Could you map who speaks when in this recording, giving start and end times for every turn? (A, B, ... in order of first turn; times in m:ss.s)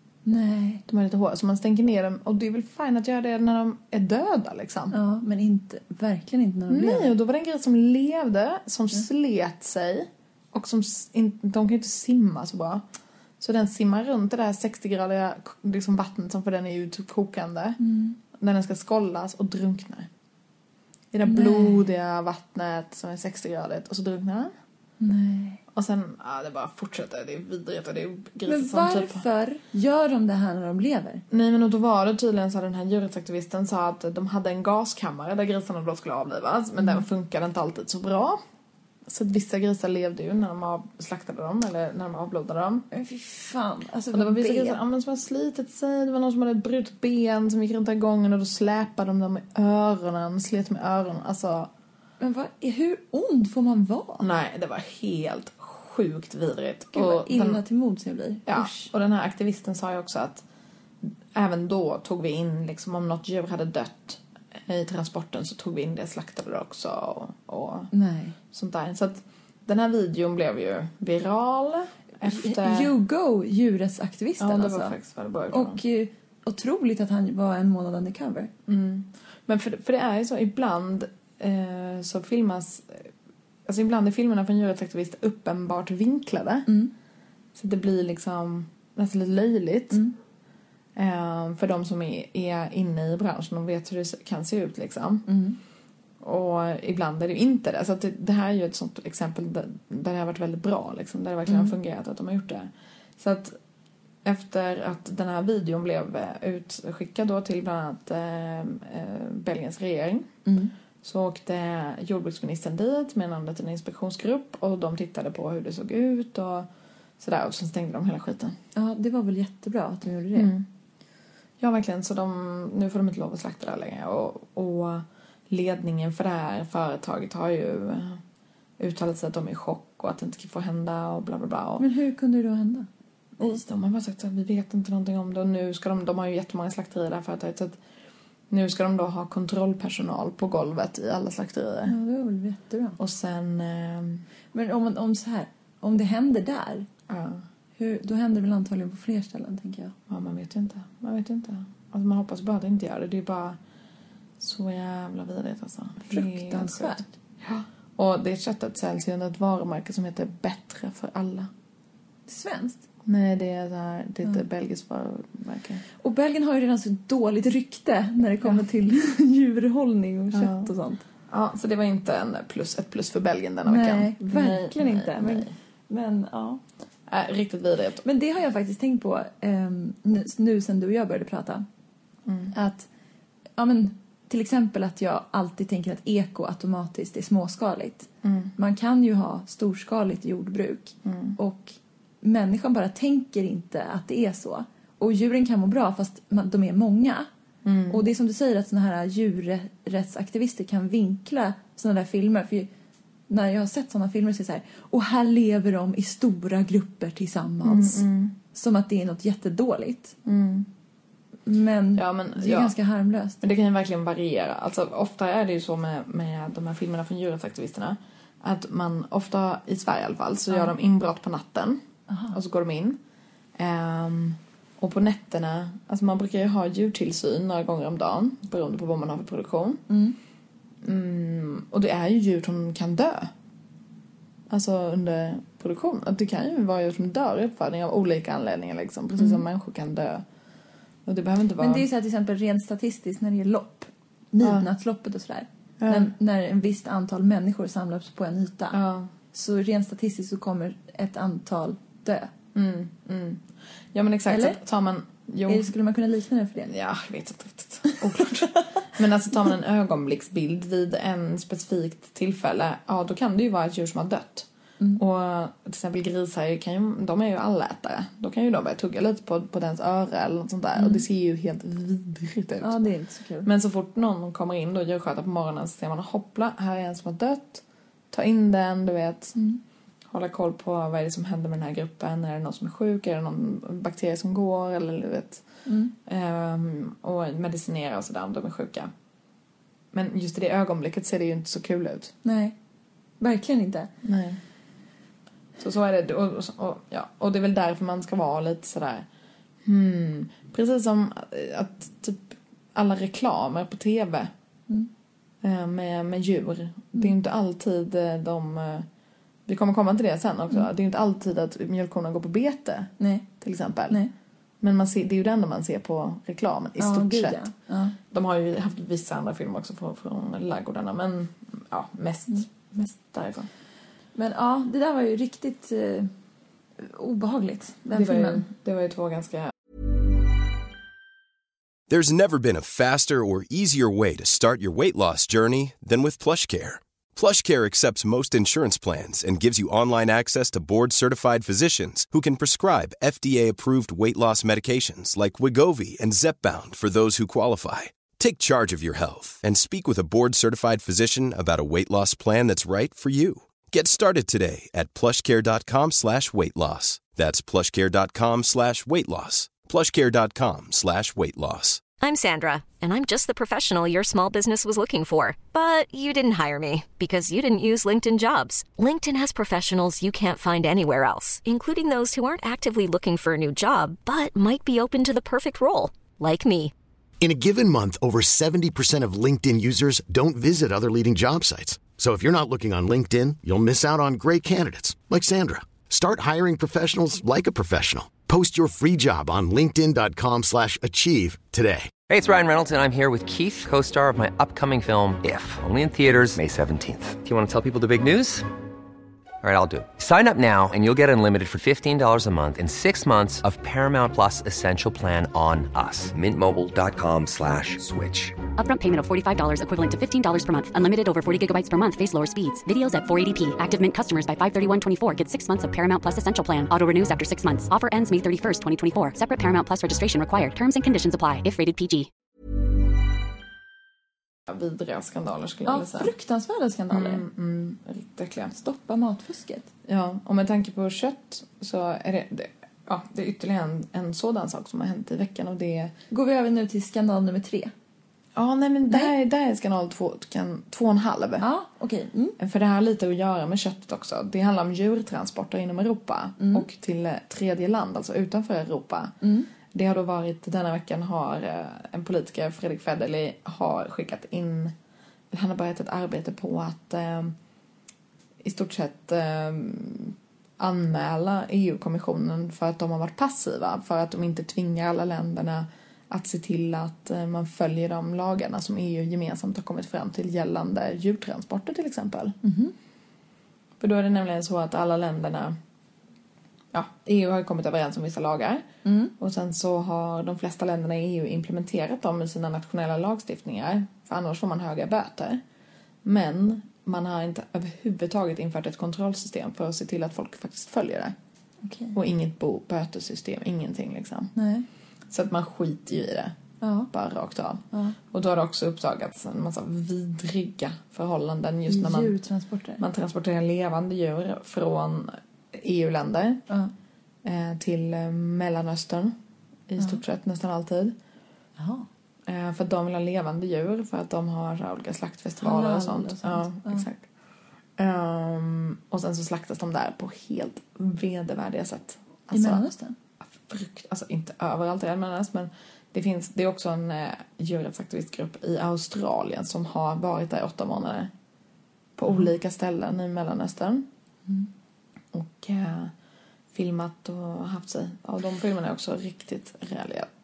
0:00.2-0:00.8 A
0:00.9-0:05.0 B
0:04.9-0:07.1 A
0:06.7-0:12.8 B
0:13.4-0:17.8 B
0:17.8-0:18.2 A
0:18.3-0:20.1 B
0:21.1-0:24.5 B
0:21.2-0:21.8 A
0:25.0-0:25.6 A
0:25.7-0:29.2 B
0:28.4-0:31.2 A
0:31.3-0:38.4 B
0:39.0-0:42.8 B
0:42.9-0:44.8 A
0:44.1-0:51.7 B
0:52.2-0:54.2 A
0:54.2-0:57.6 B
0:56.9-0:58.9 A
0:58.5-1:00.4 B
1:01.0-1:07.9 B
1:07.9-1:08.4 A
1:08.5-1:12.9 B
1:12.2-1:14.9 A
1:14.4-1:15.8 B
1:15.5-1:18.5 A
1:18.7-1:23.1 B
1:23.6-1:26.7 B
1:26.7-1:26.9 A
1:27.5-1:30.0 B
1:31.0-1:35.3 B
1:35.3-1:35.6 A
1:36.2-1:43.6 B
1:41.5-1:41.7 A
1:44.2-1:50.3 B
1:50.4-1:50.7 A
1:51.0-1:56.7 B
1:57.2-1:58.6 B
1:58.7-2:00.5 A
2:00.3-2:00.6 B
2:01.6-2:08.2 B
2:08.8-2:11.9 B
2:11.8-2:12.9 A
2:13.4-2:17.8 B
2:18.5-2:22.0 B
2:21.9-2:23.0 A
2:23.0-2:24.2 B
2:24.5-2:26.9 A
2:27.1-2:27.4 B
2:27.8-2:29.9 A
2:30.1-2:33.6 B
2:34.4-2:41.5 B
2:36.1-2:37.1 A
2:42.3-2:42.8 A
2:43.0-2:45.8 B
2:46.0-2:51.0 A
2:50.3-2:50.7 B
2:51.3-2:55.5 B
2:53.6-2:56.6 A
2:57.1-2:58.0 B
2:58.0-3:01.6 A
3:02.2-3:02.5 B
3:02.5-3:02.9 A
3:03.6-3:17.3 A
3:08.2-3:08.5 B
3:11.0-3:11.4 B
3:17.6-3:18.0 B
3:17.9-3:22.7 A
3:23.3-3:30.1 A
3:27.6-3:28.3 B
3:30.2-3:30.7 B
3:31.4-3:33.4 A
3:32.0-3:32.7 B
3:33.4-3:41.8 B
3:42.1-3:42.3 A
3:42.3-3:43.0 B
3:43.6-3:49.8 B
3:49.9-3:50.2 A
3:50.8-3:53.3 B
3:54.5-4:00.2 B
4:01.0-4:01.8 B
4:01.6-4:08.8 A
4:04.4-4:04.7 B
4:05.8-4:06.1 B
4:08.7-4:09.1 B
4:09.3-4:12.3 A
4:12.5-4:13.4 B
4:13.9-4:15.7 B
4:14.3-4:14.6 A
4:15.4-4:16.7 A
4:16.6-4:32.8 B
4:18.2-4:18.6 A
4:30.8-4:31.0 A
4:32.6-4:33.5 A
4:33.4-4:39.4 B
4:39.4-4:39.6 A
4:40.1-4:45.4 B
4:45.6-4:45.9 A
4:46.0-4:48.9 B
4:49.9-4:52.1 B
4:52.2-4:52.5 A
4:53.2-4:53.9 A
4:54.0-4:54.4 B
4:55.6-4:59.1 B
4:59.6-5:04.3 B
5:05.4-5:08.9 B
5:09.4-5:14.0 B
5:13.0-5:13.2 A
5:14.6-5:17.5 B
5:16.8-5:18.0 A
5:18.1-5:23.5 B
5:24.1-5:26.1 A
5:26.8-5:28.4 A
5:27.9-5:29.5 B
5:31.9-6:01.8 C
6:02.0-6:16.7 D
6:17.2-6:31.9 E
6:32.0-6:38.5 F
6:39.4-6:48.4 F
6:48.6-7:02.1 G
7:04.5-7:06.1 B
7:05.6-7:07.2 A
7:06.9-7:08.5 B
7:08.6-7:09.7 A
7:09.8-7:15.9 B
7:16.1-7:17.7 A
7:18.3-7:21.5 B
7:21.4-7:22.4 A
7:22.4-7:29.1 B
7:26.4-7:26.6 A
7:29.2-7:29.5 A
7:29.7-7:34.7 B
7:35.3-7:37.3 B
7:38.4-7:52.3 B
7:52.4-7:52.7 A
7:53.8-7:55.6 B
7:56.7-7:58.6 B
7:58.8-7:59.1 A
7:59.2-8:05.4 B
8:06.0-8:11.1 B
8:11.6-8:12.0 A
8:11.9-8:14.3 B
8:14.3-8:14.6 A
8:15.1-8:16.3 B
8:16.6-8:16.9 A
8:16.9-8:22.2 B
8:17.7-8:18.0 A
8:21.7-8:22.8 A
8:22.8-8:26.4 B
8:27.2-8:29.1 B
8:29.7-8:30.9 B
8:31.6-8:31.9 A
8:32.3-8:37.0 B
8:35.4-8:36.8 A
8:37.8-8:42.6 B
8:42.3-8:43.0 A
8:43.4-8:51.1 B
8:52.0-8:53.9 B
8:55.1-8:55.9 B
8:56.5-9:00.1 B